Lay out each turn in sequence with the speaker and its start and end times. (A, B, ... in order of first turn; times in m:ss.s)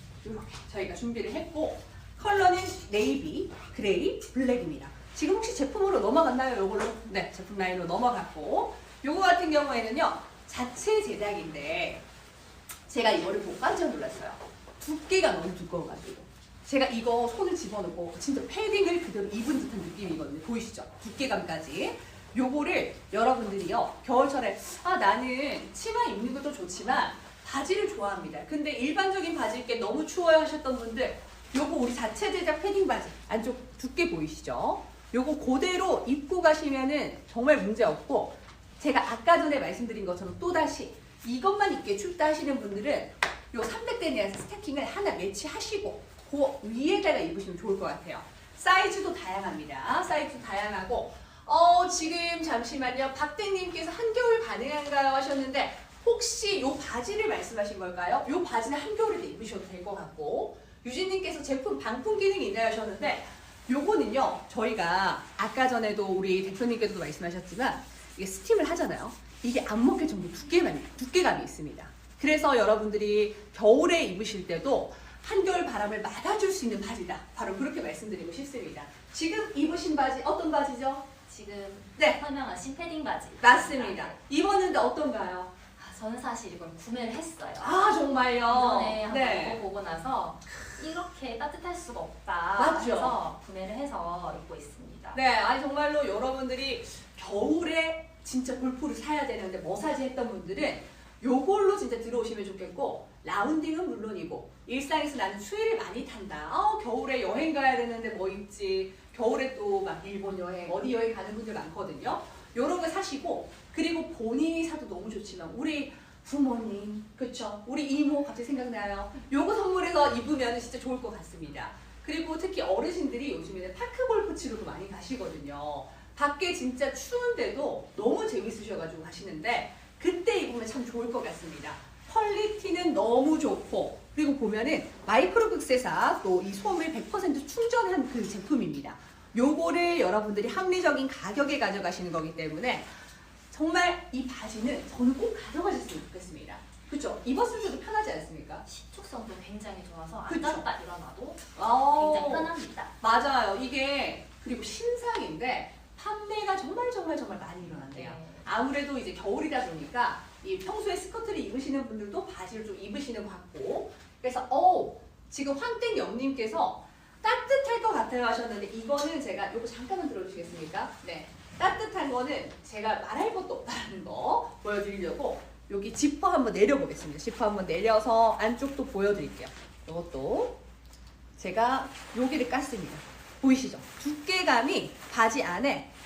0:00.2-0:12.0 A
0:12.9-1:21.1 A
1:21.3-1:24.2 B
1:23.4-1:25.5 A
1:25.8-1:27.9 B
1:27.6-1:29.6 A
1:28.4-1:35.2 B
1:32.6-1:33.2 A
1:35.1-2:22.9 A
2:23.5-2:28.6 A
2:28.6-2:32.9 B
2:30.3-2:30.7 A
2:31.6-2:32.5 A
2:33.0-3:00.6 A
2:37.9-2:38.4 B
3:01.4-3:05.9 A